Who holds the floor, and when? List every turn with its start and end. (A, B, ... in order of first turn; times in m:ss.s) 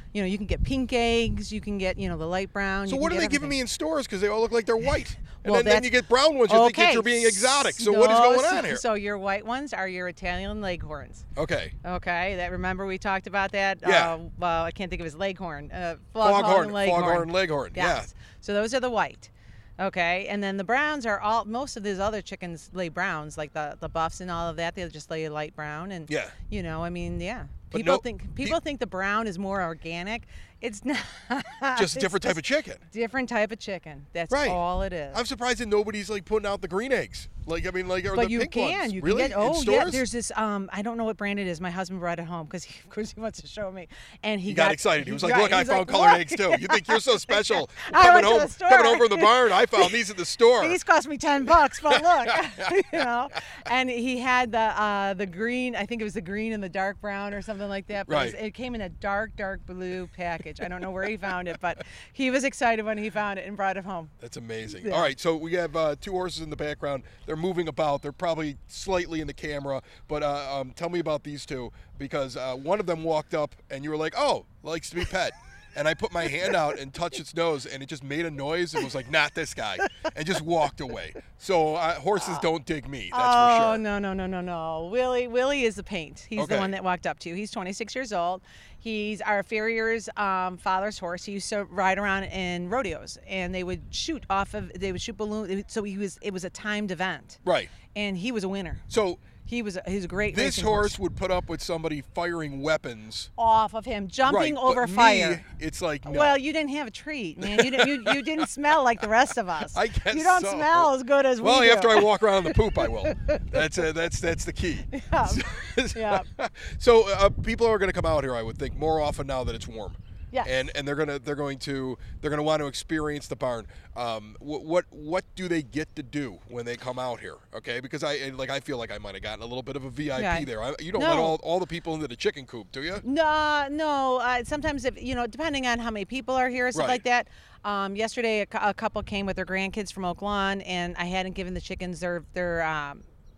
0:00.1-0:03.6 A
0:02.9-0:08.8 B
0:05.4-0:05.9 A
0:06.5-0:11.2 A
0:11.4-0:11.7 B
0:11.8-0:35.2 A
0:13.8-0:14.1 B
0:16.2-0:18.1 B
0:26.1-0:26.4 B
0:27.7-0:28.6 B
0:31.8-0:32.8 B
0:34.3-0:34.6 B
0:35.1-0:40.0 B
0:38.1-0:50.0 A
0:44.5-0:50.8 B
0:50.6-1:04.1 A
0:51.9-0:52.7 B
0:58.1-0:58.4 B
1:04.2-1:23.8 B
1:04.8-1:05.1 A
1:22.2-1:22.4 A
1:23.1-1:38.8 A
1:26.4-1:26.7 B
1:37.4-1:37.8 B
1:38.9-1:39.3 B
1:39.4-1:41.0 A
1:40.3-1:43.3 B
1:43.4-1:45.4 A
1:44.3-1:46.4 B
1:46.1-1:53.1 A
1:47.4-1:48.2 B
1:49.7-2:13.0 B
1:54.9-1:56.3 A
2:10.2-2:11.4 A
2:13.0-2:23.0 A
2:16.7-2:17.0 B